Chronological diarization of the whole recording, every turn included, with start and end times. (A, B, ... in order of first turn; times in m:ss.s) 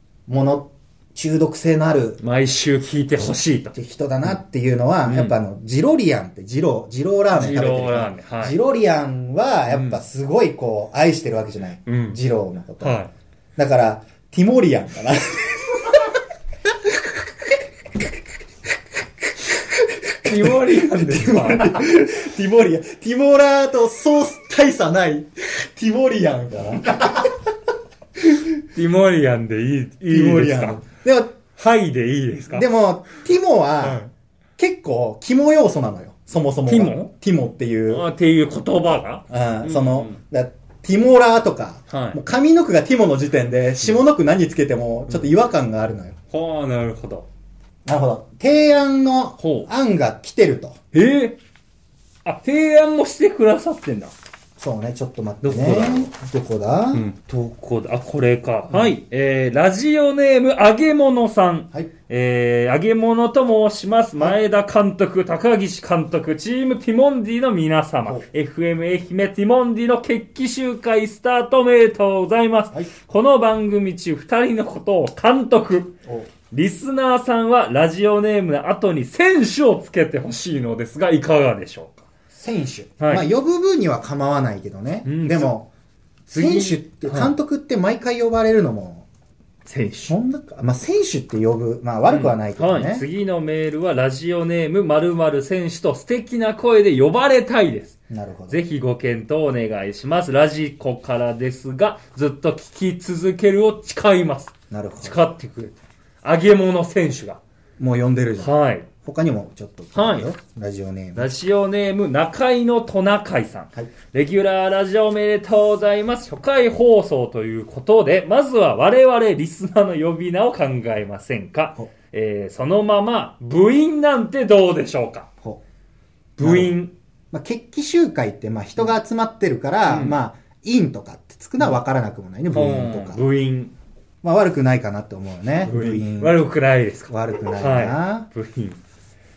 0:00.3-0:02.2 A
0:02.2-0:03.8 B
0:03.7-0:13.0 A
0:05.0-0:05.4 B
0:07.3-0:08.6 B
0:09.7-0:10.0 B
0:11.8-0:12.2 B
0:12.8-0:13.1 B
0:13.6-0:16.1 A
0:16.6-0:17.6 A
0:19.4-0:27.5 A
0:20.2-0:21.9 B
0:28.7-0:30.8 B
0:30.1-0:31.3 A
0:31.6-0:32.7 B
0:32.5-0:34.0 A
0:33.8-0:34.1 B
0:34.6-0:38.0 A
0:36.6-0:37.1 B
0:37.9-0:40.2 B
0:39.3-0:46.2 A
0:41.9-0:42.2 B
0:46.3-0:47.2 B
0:47.8-0:50.8 A
0:49.4-0:49.7 B
0:50.9-0:51.4 B
0:52.2-0:54.1 B
0:54.6-0:57.0 A
0:55.4-0:56.1 B
0:56.9-1:16.0 B
1:08.0-1:08.3 A
1:16.5-1:22.0 B
1:22.3-1:25.7 A
1:23.0-1:23.3 B
1:25.0-1:25.5 B
1:26.3-1:27.3 B
1:26.4-1:29.1 A
1:29.6-1:30.2 B
1:30.1-1:33.0 A
1:32.1-1:38.0 B
1:38.1-1:38.6 A
1:38.5-1:47.4 B
1:44.7-1:45.2 A
1:47.8-1:51.3 A
1:48.4-1:48.9 B
1:49.9-1:50.3 B
1:51.1-2:05.3 B
2:06.4-2:06.9 B
2:06.4-2:06.7 A
2:07.3-2:13.2 A
2:09.9-2:10.2 B
2:12.5-2:13.7 B
2:14.2-2:16.4 A
2:15.6-2:18.8 B
2:17.1-2:18.3 A